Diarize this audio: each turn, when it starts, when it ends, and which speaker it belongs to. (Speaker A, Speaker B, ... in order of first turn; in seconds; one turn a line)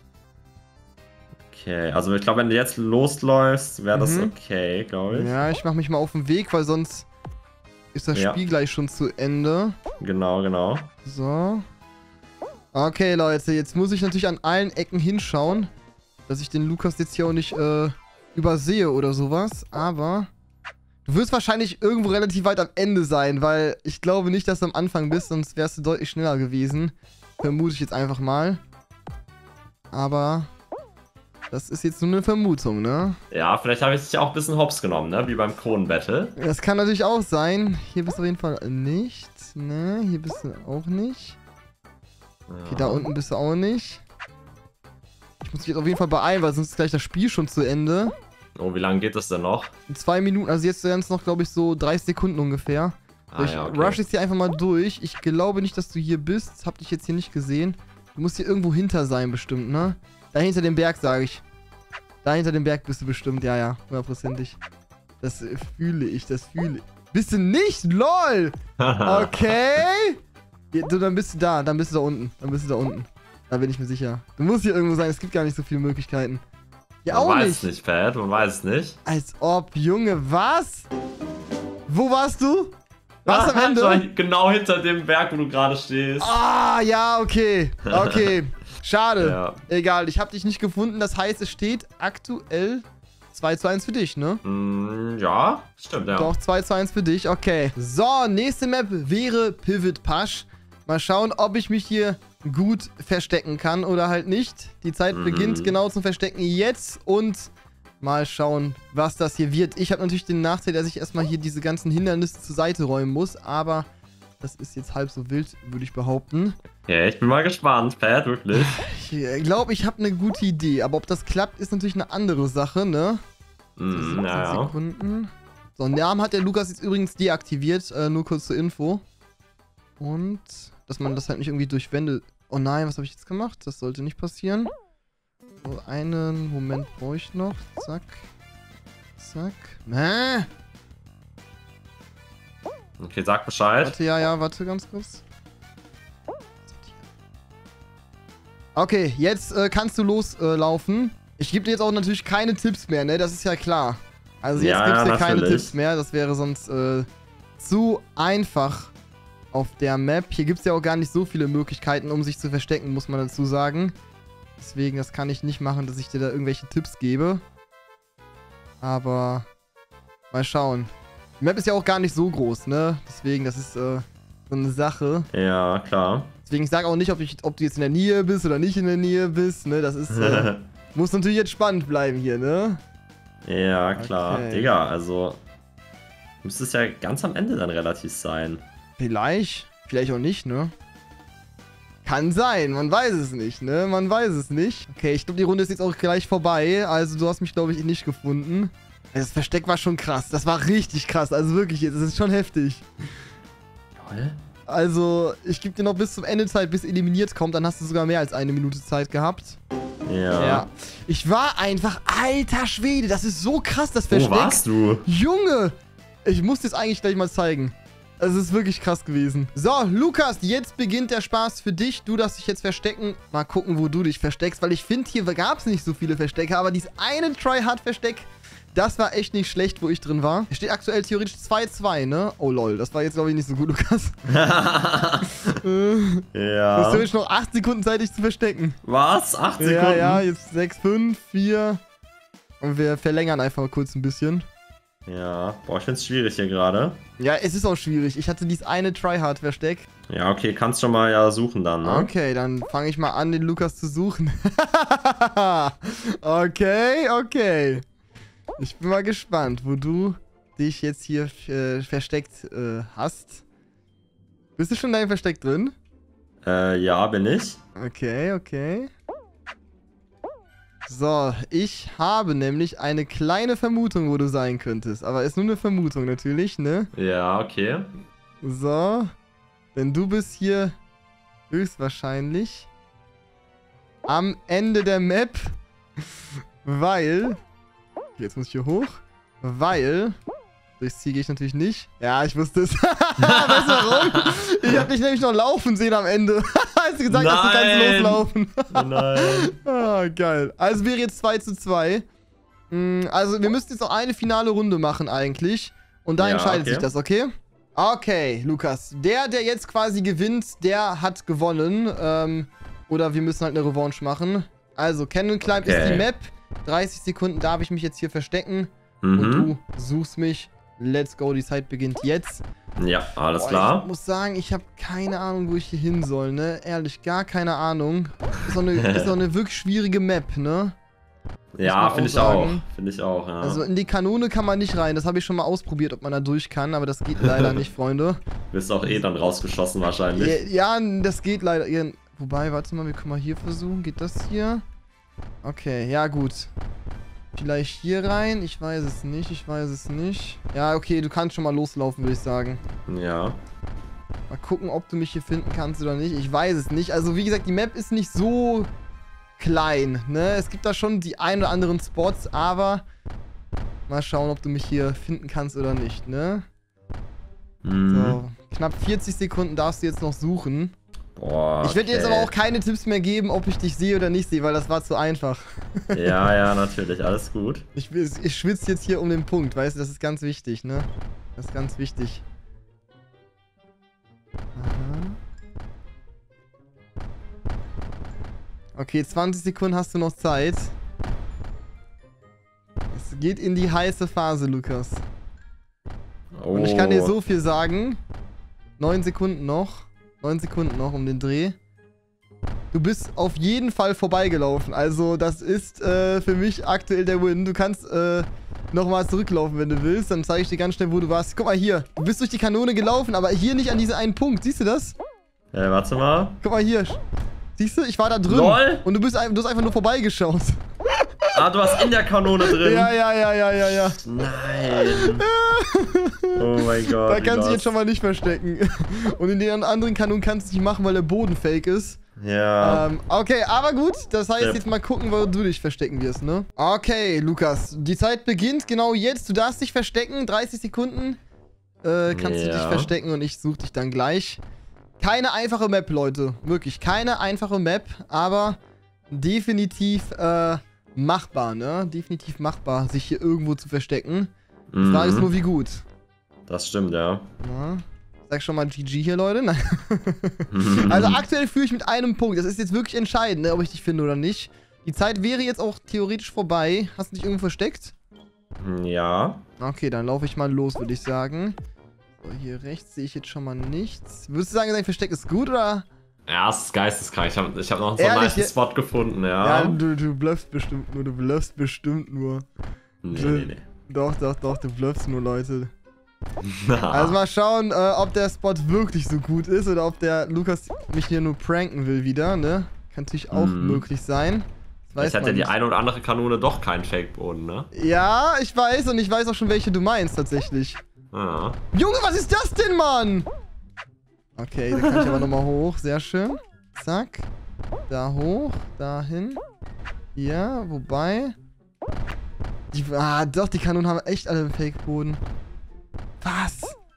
Speaker A: 1.5-5.3
Speaker B: 3.9-4.3
Speaker B: 5.1-7.1
Speaker B: 7.9-9.8
Speaker A: 8.1-8.4
Speaker A: 10.0-10.9
Speaker B: 11.0-11.7
Speaker B: 12.7-15.7
Speaker B: 16.3-20.3
Speaker B: 21.1-28.6
Speaker B: 29.9-30.5
Speaker B: 31.5-33.2
Speaker A: 33.3-36.4
Speaker B: 36.4-41.4
Speaker A: 42.5-43.1
Speaker B: 42.7-44.0
Speaker B: 45.4-48.1
Speaker A: 48.6-49.7
Speaker B: 49.9-61.4
Speaker A: 53.3-54.0
Speaker B: 62.2-64.6
Speaker B: 65.2-70.2
Speaker A: 68.8-69.6
Speaker B: 70.7-76.4
Speaker B: 77.0-77.7
Speaker A: 77.1-79.0
Speaker B: 79.0-80.9
Speaker B: 81.9-84.0
Speaker A: 83.3-86.4
Speaker B: 86.2-94.4
Speaker A: 88.0-88.3
Speaker A: 89.2-89.6
Speaker A: 94.4-96.3
Speaker B: 96.1-113.9
Speaker A: 105.1-105.8
Speaker B: 114.4-116.6
Speaker A: 116.8-118.8
Speaker B: 118.5-123.2
Speaker A: 123.8-124.7
Speaker B: 123.9-129.0
Speaker B: 130.0-134.7
Speaker B: 135.6-138.2
Speaker B: 139.2-140.5
Speaker A: 143.0-143.9
Speaker B: 143.8-145.2
Speaker B: 146.7-147.0
Speaker B: 148.8-157.1
Speaker A: 154.6-155.7
Speaker B: 157.6-158.9
Speaker B: 159.5-164.0
Speaker B: 164.6-167.4
Speaker B: 168.8-169.5
Speaker B: 170.3-175.3
Speaker A: 175.3-176.3
Speaker B: 176.5-182.8
Speaker A: 180.1-180.6
Speaker A: 183.4-185.4
Speaker B: 184.0-184.7
Speaker A: 186.4-188.6
Speaker B: 189.0-190.7
Speaker B: 192.0-202.9
Speaker A: 204.0-204.4
Speaker B: 204.7-209.6
Speaker A: 210.1-210.7
Speaker B: 210.3-215.7
Speaker A: 214.1-215.1
Speaker B: 216.2-234.2
Speaker A: 234.3-235.4
Speaker B: 235.6-238.8
Speaker A: 236.3-237.1
Speaker A: 238.8-240.3
Speaker B: 239.6-241.8
Speaker B: 242.6-244.5
Speaker A: 245.1-247.0
Speaker B: 247.2-249.9
Speaker A: 250.1-252.1
Speaker B: 251.8-257.8
Speaker B: 258.6-263.4
Speaker B: 264.6-265.8
Speaker A: 266.4-267.6
Speaker B: 267.8-268.9
Speaker B: 270.9-276.9
Speaker A: 276.9-277.9
Speaker B: 278.4-279.1
Speaker B: 279.8-280.8
Speaker B: 281.5-282.7
Speaker B: 284.1-285.6
Speaker B: 286.6-287.4
Speaker B: 288.2-290.2
Speaker B: 290.8-302.1
Speaker A: 293.2-294.9
Speaker A: 297.1-299.5
Speaker B: 302.7-322.4
Speaker A: 306.2-306.9
Speaker A: 315.6-316.1
Speaker A: 319.0-319.5
Speaker A: 322.8-323.9
Speaker B: 323.4-330.7
Speaker A: 328.8-329.1
Speaker A: 331.5-333.6
Speaker B: 331.6-332.6
Speaker B: 333.4-338.2
Speaker A: 338.5-340.4
Speaker B: 340.2-344.6
Speaker B: 345.4-346.5
Speaker B: 347.3-352.6
Speaker A: 352.9-353.4
Speaker B: 354.3-358.7
Speaker B: 359.4-362.9
Speaker B: 363.9-366.4
Speaker A: 367.6-368.2
Speaker B: 367.9-370.7
Speaker A: 371.2-372.3
Speaker B: 371.6-376.3
Speaker A: 375.9-377.7
Speaker B: 377.8-382.2
Speaker B: 384.6-385.2
Speaker B: 388.8-390.7
Speaker B: 392.9-395.0
Speaker A: 396.4-397.1
Speaker B: 396.5-398.0
Speaker B: 398.8-401.6
Speaker B: 402.7-415.0
Speaker A: 415.5-416.4
Speaker B: 416.4-417.0
Speaker B: 417.6-420.6
Speaker A: 418.3-418.9
Speaker A: 421.3-422.9
Speaker B: 422.5-424.0
Speaker A: 423.9-425.3
Speaker B: 424.7-432.0
Speaker A: 426.4-427.7
Speaker A: 432.2-432.9
Speaker B: 432.6-441.2
Speaker B: 441.8-444.4
Speaker A: 442.1-442.9
Speaker B: 445.0-448.6
Speaker B: 449.1-455.8
Speaker A: 454.7-455.3
Speaker A: 456.5-457.3
Speaker B: 457.4-467.9
Speaker A: 460.5-461.2
Speaker A: 468.6-469.4
Speaker B: 469.6-471.6
Speaker B: 472.2-475.9
Speaker A: 476.3-479.8
Speaker B: 478.0-478.5
Speaker B: 479.4-482.4
Speaker A: 483.0-483.6
Speaker B: 483.1-485.7
Speaker A: 486.4-487.2
Speaker B: 486.9-495.5
Speaker A: 493.3-493.9
Speaker A: 495.0-497.7
Speaker B: 497.7-500.8
Speaker A: 501.1-501.6
Speaker B: 501.7-503.3
Speaker B: 504.4-507.3
Speaker A: 504.7-505.3
Speaker B: 507.9-509.4
Speaker B: 510.1-511.3
Speaker B: 512.7-515.2
Speaker B: 516.2-516.8